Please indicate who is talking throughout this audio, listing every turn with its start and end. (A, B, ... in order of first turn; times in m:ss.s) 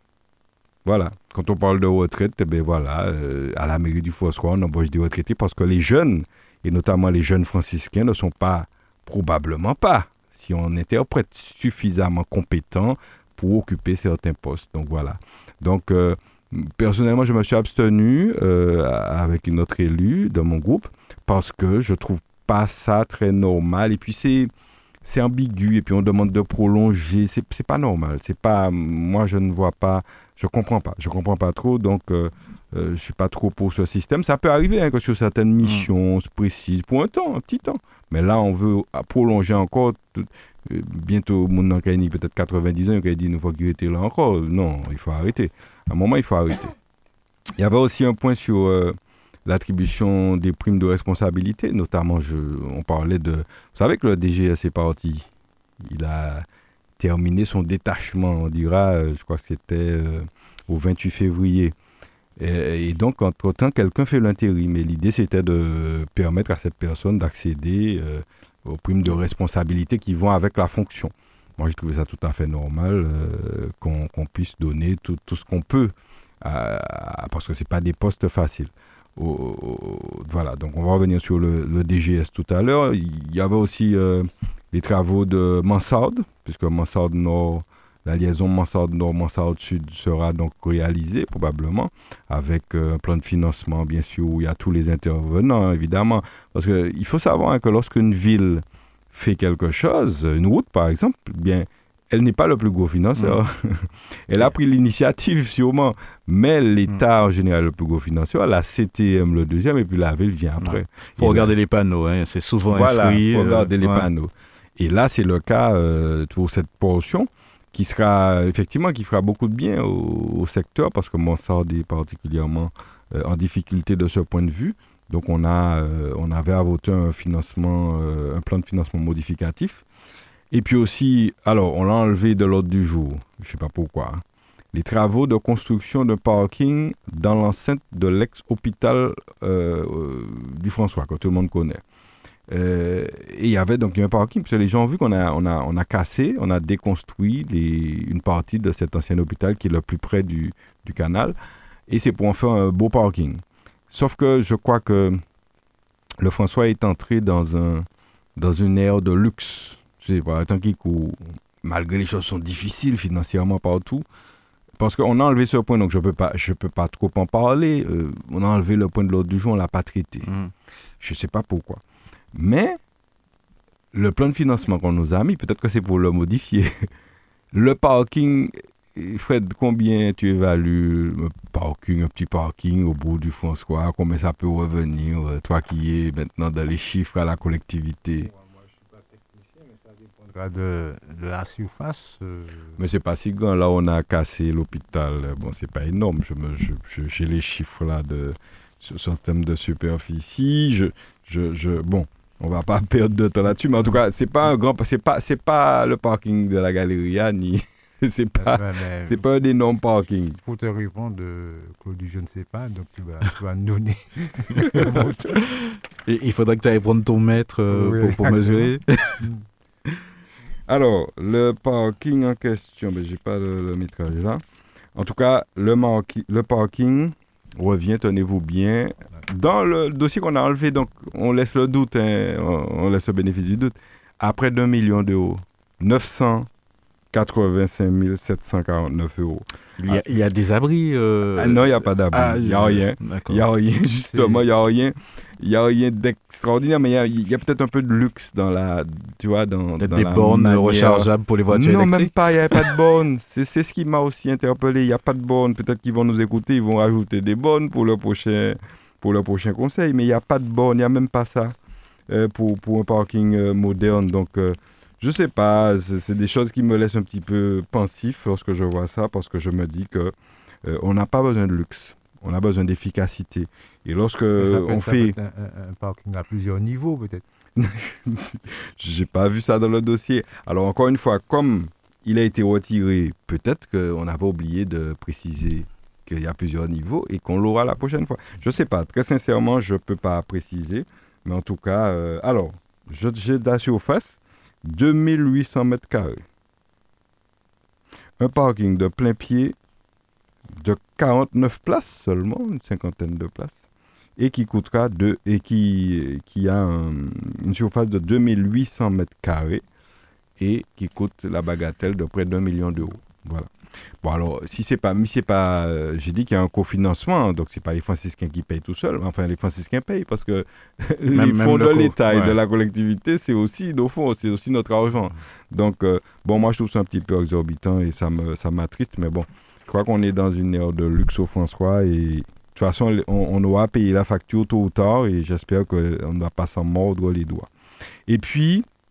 0:00.8-0:24.5 A
0:25.0-0:46.7 A
0:47.6-0:55.3 A
0:55.8-0:56.5 A
0:57.0-1:01.7 A
1:02.4-1:51.5 A
1:50.6-1:54.1 B
1:52.7-2:09.8 A
2:10.5-2:21.8 A
2:22.5-2:31.4 A
2:31.9-2:35.2 A
2:36.2-2:44.0 A
2:44.8-2:50.3 A
2:50.3-2:50.5 B
2:51.0-2:51.8 A
2:52.3-2:52.8 A
2:53.9-2:56.9 A
2:57.5-3:08.3 A
3:08.2-3:12.8 C
3:12.8-3:30.4 A
3:28.4-3:29.2 C
3:30.4-3:35.3 C
3:34.6-3:39.3 B
3:37.7-3:39.4 C
3:40.7-3:44.4 A
3:44.9-3:56.5 A
3:57.1-3:59.5 A
3:59.8-4:03.4 B
4:01.4-4:21.6 A
4:09.8-4:12.7 B
4:22.1-4:35.2 A
4:34.4-4:37.2 C
4:37.6-4:56.2 A
4:58.2-4:59.6 A
5:00.6-5:03.6 A
5:04.2-5:09.6 A
5:10.4-5:13.5 A
5:14.0-5:37.5 A
5:21.1-5:22.4 B
5:38.1-5:38.7 A